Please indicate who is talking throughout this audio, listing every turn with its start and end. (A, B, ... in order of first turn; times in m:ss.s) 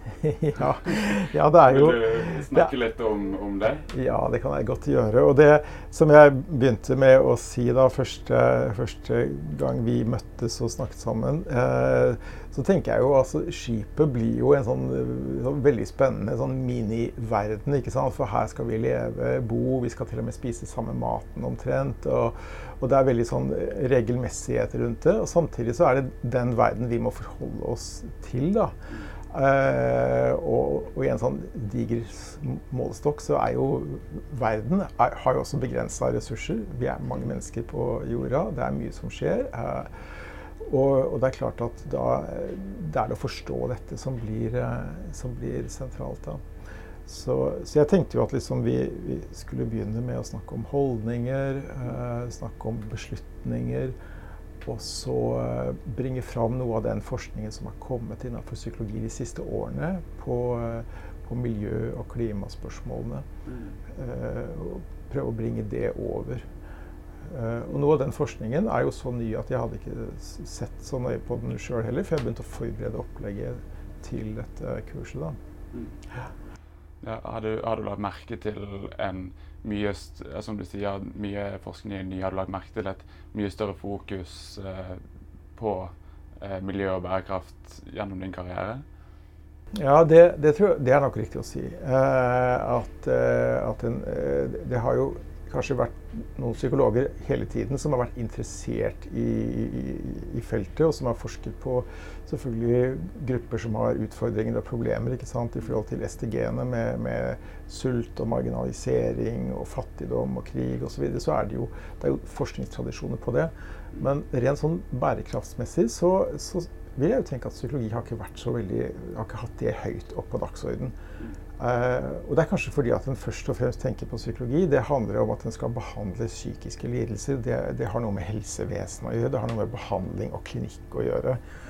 0:00.2-0:02.7 A
0:00.9-0:03.8 B
0:03.9-0:28.7 A
0:29.3-0:39.9 A
0:40.6-0:46.4 A
0:47.0-0:53.9 A
0:54.6-1:03.2 A
1:03.5-1:03.8 B
1:03.9-1:06.4 A
1:07.3-1:15.4 A
1:17.0-1:25.0 B
1:25.6-1:28.8 B
1:29.7-2:00.9 A
2:01.6-2:11.4 A